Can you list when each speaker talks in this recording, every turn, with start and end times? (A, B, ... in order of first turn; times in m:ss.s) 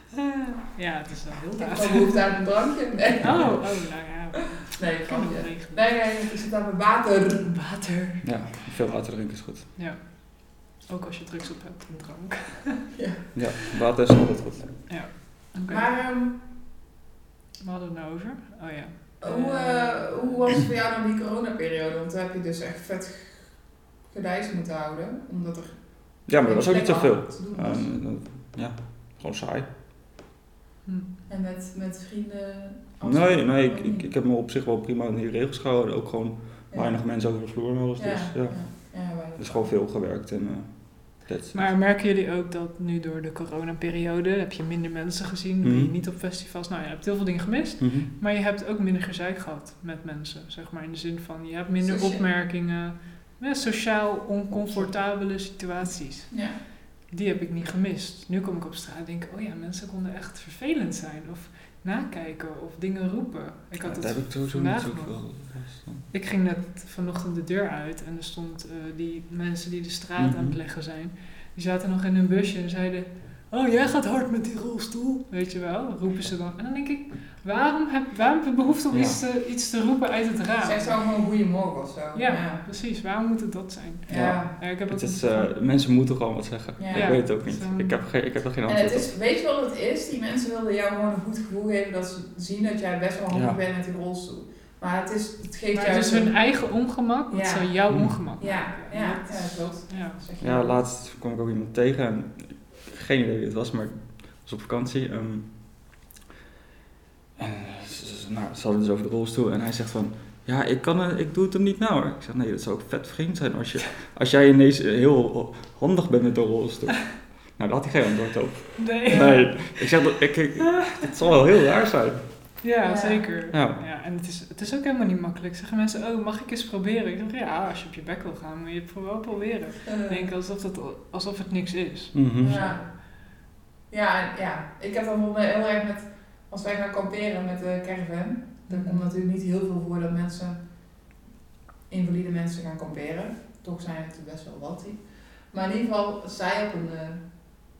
0:00.2-0:02.3 A
0:01.6-0:03.6 B
0:03.2-0:05.8 A
0:04.7-0:07.5 B
0:07.4-0:08.2 A
0:08.2-0:09.7 C
0:09.8-0:12.9 A
0:12.9-0:13.2 B
0:13.3-0:14.8 C
0:14.9-0:15.8 A
0:15.7-0:16.4 B
0:17.6-0:20.3 A
0:19.2-0:23.5 B
0:24.1-0:27.8 B
0:26.2-0:29.7 C
0:31.3-0:34.1 B
0:33.0-0:41.7 C
0:38.0-0:39.7 B
0:41.5-0:56.5 A
0:45.6-0:45.9 C
0:47.8-0:48.1 C
0:51.8-0:52.2 B
0:57.1-1:05.1 A
1:03.8-1:06.0 C
1:06.1-1:20.9 A
1:10.2-1:10.6 C
1:18.9-1:19.2 C
1:20.6-1:22.6 B
1:22.1-1:25.5 A
1:24.1-1:24.5 B
1:24.1-1:29.1 C
1:26.8-1:27.1 B
1:26.9-1:28.0 A
1:28.7-1:36.4 B
1:33.3-1:33.6 C
1:35.7-1:40.2 A
1:37.3-1:37.7 B
1:37.9-1:38.2 C
1:38.4-1:40.8 B
1:40.4-1:45.5 C
1:47.4-2:02.2 C
1:58.8-1:59.8 A
2:00.6-2:01.0 A
2:02.6-2:12.9 A
2:02.8-2:03.3 B
2:03.5-2:03.8 C
2:09.8-2:10.2 B
2:12.1-2:12.6 C
2:12.4-2:12.8 B
2:13.9-2:20.6 B
2:18.7-2:19.0 A
2:21.9-2:27.2 B